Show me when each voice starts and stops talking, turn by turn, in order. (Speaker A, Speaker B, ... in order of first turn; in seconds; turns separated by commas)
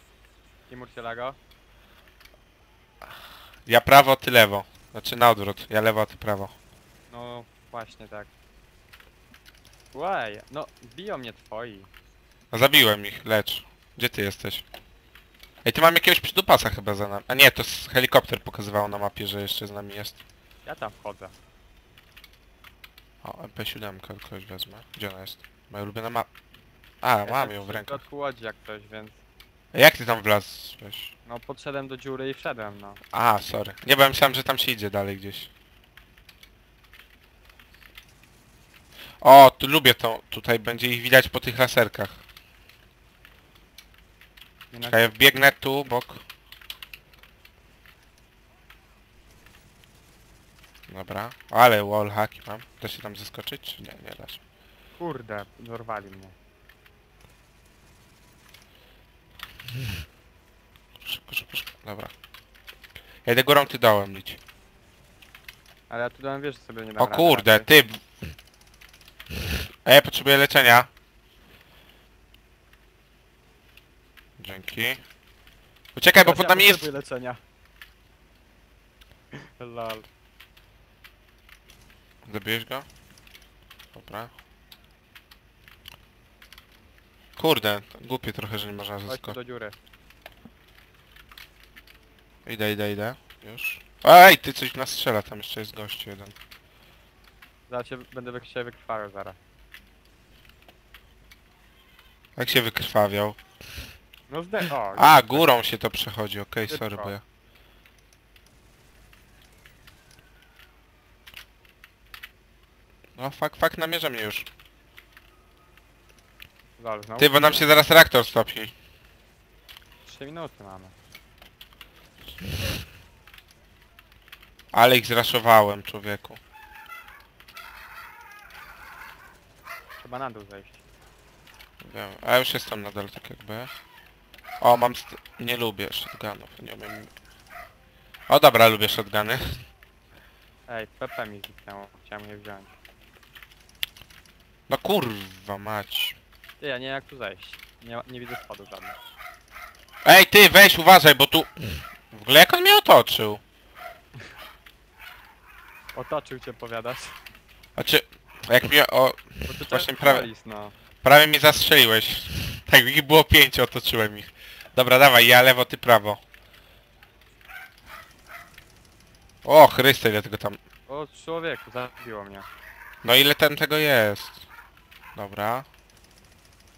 Speaker A: 0.7-1.4, Speaker B: 3.6-6.5, Speaker A: 7.1-8.3, Speaker A: 9.9-11.9, Speaker B: 12.5-14.6, Speaker B: 15.6-20.2, Speaker A: 20.6-21.4, Speaker B: 23.2-26.3, Speaker B: 27.0-28.0, Speaker A: 27.2-29.2, Speaker B: 29.7-31.1, Speaker A: 31.2-33.0, Speaker B: 33.1-35.5, Speaker B: 39.2-42.2, Speaker A: 44.7-45.1, Speaker B: 44.8-46.2, Speaker B: 50.9-54.4, Speaker A: 55.0-56.3, Speaker B: 61.0-62.1, Speaker B: 63.2-64.4, Speaker A: 65.9-67.7, Speaker B: 67.0-68.0, Speaker B: 69.8-70.9, Speaker B: 74.4-75.0, Speaker B: 75.9-76.9, Speaker A: 76.2-77.4, Speaker A: 79.4-80.0, Speaker B: 82.2-82.8, Speaker B: 83.9-84.3, Speaker B: 87.3-89.4, Speaker A: 89.1-89.8, Speaker B: 92.5-96.3, Speaker A: 97.7-99.4, Speaker B: 102.4-103.4, Speaker A: 104.3-105.5, Speaker B: 104.9-107.2, Speaker A: 106.7-107.1, Speaker B: 113.2-114.5, Speaker A: 116.8-117.7, Speaker B: 117.2-118.7, Speaker A: 120.0-120.9, Speaker B: 124.7-126.4, Speaker A: 130.0-130.8, Speaker B: 131.8-133.7, Speaker B: 134.6-137.1, Speaker B: 138.3-139.6, Speaker A: 140.7-142.7, Speaker B: 144.7-146.2, Speaker A: 146.6-148.9, Speaker B: 150.0-153.4, Speaker A: 155.9-157.2, Speaker B: 157.8-160.3, Speaker A: 159.5-160.7, Speaker B: 161.0-166.2, Speaker B: 169.4-170.6, Speaker A: 170.9-172.5, Speaker B: 173.0-174.4, Speaker B: 175.1-175.7